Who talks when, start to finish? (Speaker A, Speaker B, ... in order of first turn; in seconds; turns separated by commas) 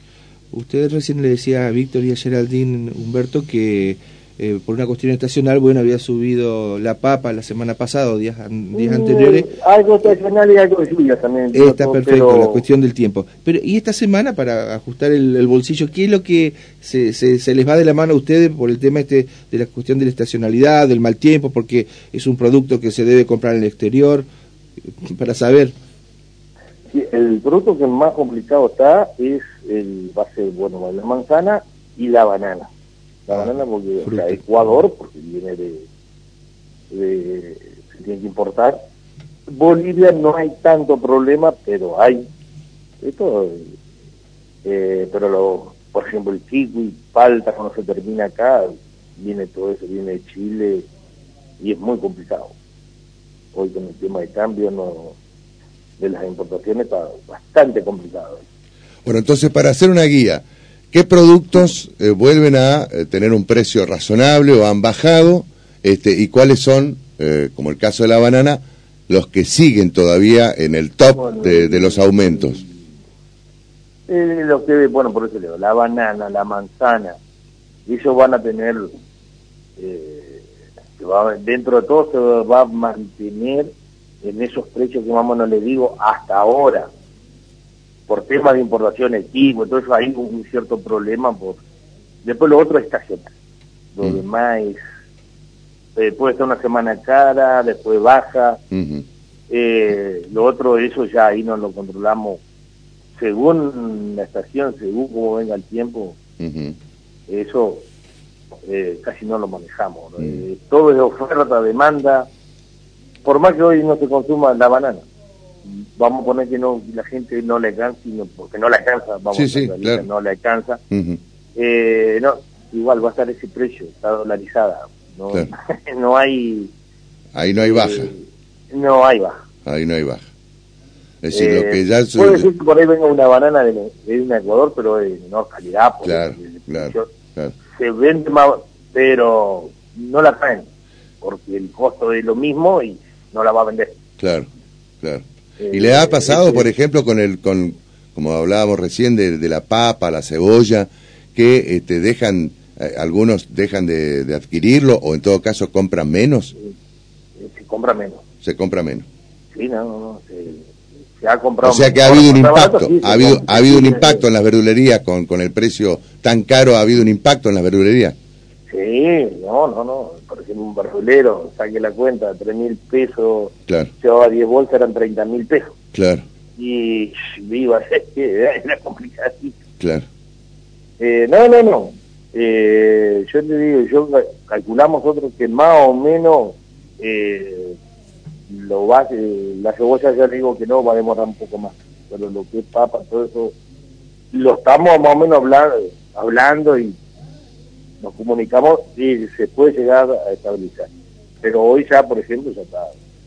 Speaker A: 0.5-9.5, Speaker B: 8.7-12.6, Speaker A: 11.5-24.3, Speaker A: 24.9-25.7, Speaker B: 26.9-32.7, Speaker B: 33.3-35.8, Speaker A: 34.0-34.7, Speaker B: 36.9-38.8, Speaker B: 39.5-42.2, Speaker B: 43.0-43.7, Speaker B: 44.6-50.9, Speaker B: 51.6-52.5, Speaker B: 53.5-55.1, Speaker B: 56.0-58.4, Speaker C: 59.0-72.6, Speaker B: 71.0-72.8, Speaker B: 74.1-77.2, Speaker B: 77.9-78.9, Speaker B: 79.8-80.4, Speaker B: 81.0-83.7, Speaker B: 84.2-86.9, Speaker B: 88.1-91.6, Speaker B: 92.2-93.3, Speaker B: 93.9-94.8, Speaker B: 96.0-98.6, Speaker C: 98.7-99.0, Speaker B: 99.5-102.4, Speaker B: 103.2-106.2, Speaker C: 106.4-106.8, Speaker B: 107.3-107.8, Speaker B: 108.7-112.3, Speaker B: 113.2-115.0, Speaker B: 116.0-120.8, Speaker C: 119.3-120.0, Speaker C: 120.9-121.2, Speaker B: 121.5-126.7, Speaker C: 127.3-128.1, Speaker B: 127.6-128.2, Speaker B: 128.7-129.3, Speaker C: 129.6-130.2, Speaker C: 131.2-132.5, Speaker B: 131.3-137.1, Speaker C: 136.0-137.6, Speaker B: 137.7-140.7, Speaker B: 141.2-143.9, Speaker C: 144.2-144.5, Speaker C: 145.0-156.5, Speaker B: 145.6-146.7, Speaker B: 157.4-158.2, Speaker C: 158.4-159.1, Speaker B: 159.5-160.7, Speaker B: 161.2-164.2, Speaker C: 161.6-168.1, Speaker B: 168.7-175.7, Speaker C: 175.9-176.2, Speaker B: 176.6-179.6, Speaker C: 179.8-180.0, Speaker B: 181.0-187.8, Speaker B: 188.5-193.5, Speaker B: 194.3-196.9, Speaker B: 198.0-200.9, Speaker B: 201.4-202.9